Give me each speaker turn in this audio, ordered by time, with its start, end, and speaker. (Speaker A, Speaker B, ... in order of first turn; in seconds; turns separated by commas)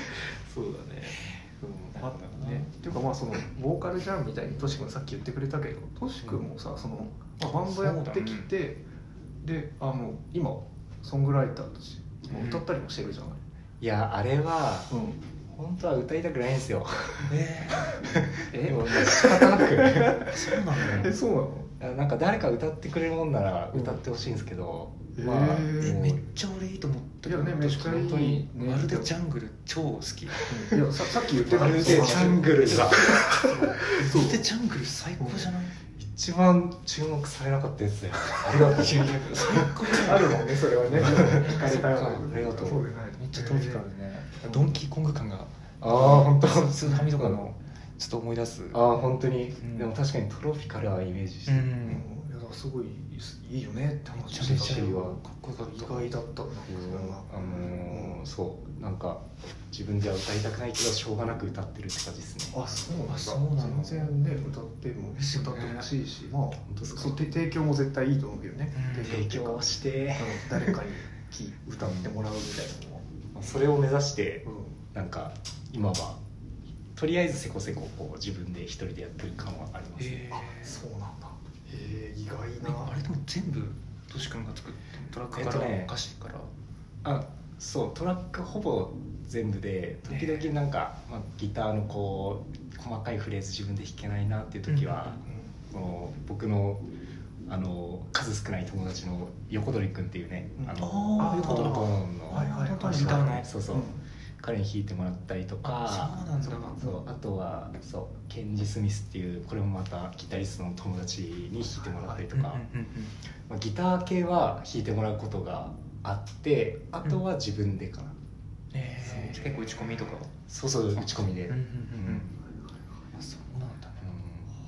Speaker A: 0.4-8.8, Speaker B: 1.9-2.7, Speaker B: 7.4-8.5, Speaker A: 9.4-13.4, Speaker B: 12.3-12.7, Speaker C: 13.8-14.9, Speaker A: 14.9-15.2, Speaker C: 15.4-21.1, Speaker B: 17.2-18.0, Speaker A: 18.5-21.7, Speaker B: 20.2-21.2, Speaker C: 21.8-26.2, Speaker A: 23.7-24.0, Speaker A: 25.1-26.0, Speaker B: 25.8-30.5, Speaker A: 27.3-29.1, Speaker C: 27.9-28.4, Speaker A: 30.5-32.9, Speaker C: 31.4-33.7, Speaker B: 31.4-35.8, Speaker A: 33.9-34.5, Speaker A: 35.2-35.5, Speaker C: 36.0-39.7, Speaker B: 38.4-42.2, Speaker A: 39.9-43.9, Speaker C: 40.9-42.9, Speaker B: 43.2-48.9, Speaker A: 44.4-44.8, Speaker C: 45.8-47.5, Speaker C: 48.7-52.0, Speaker B: 49.6-50.0, Speaker B: 51.5-52.1, Speaker A: 51.8-58.3, Speaker B: 54.1-56.1, Speaker C: 54.4-55.2, Speaker C: 56.7-62.6, Speaker A: 62.5-73.1, Speaker B: 63.1-64.2, Speaker B: 65.2-65.9, Speaker C: 66.7-67.2, Speaker B: 68.7-69.2, Speaker C: 69.0-70.8, Speaker C: 73.3-76.2, Speaker A: 74.5-74.8, Speaker C: 77.0-80.4, Speaker B: 80.0-80.8, Speaker A: 80.3-83.0, Speaker B: 82.6-86.5, Speaker C: 85.3-85.9, Speaker C: 87.0-96.8, Speaker B: 90.1-90.5, Speaker B: 94.7-95.2, Speaker A: 95.3-95.5, Speaker C: 97.5-112.6, Speaker A: 100.6-104.0, Speaker B: 100.8-103.5, Speaker B: 105.6-106.8, Speaker A: 111.6-112.3, Speaker B: 112.3-113.2, Speaker C: 113.5-118.2, Speaker B: 118.7-120.3, Speaker A: 119.0-120.2, Speaker C: 120.5-122.3, Speaker B: 120.9-122.4, Speaker A: 122.4-122.8, Speaker B: 123.1-124.2, Speaker C: 124.0-124.5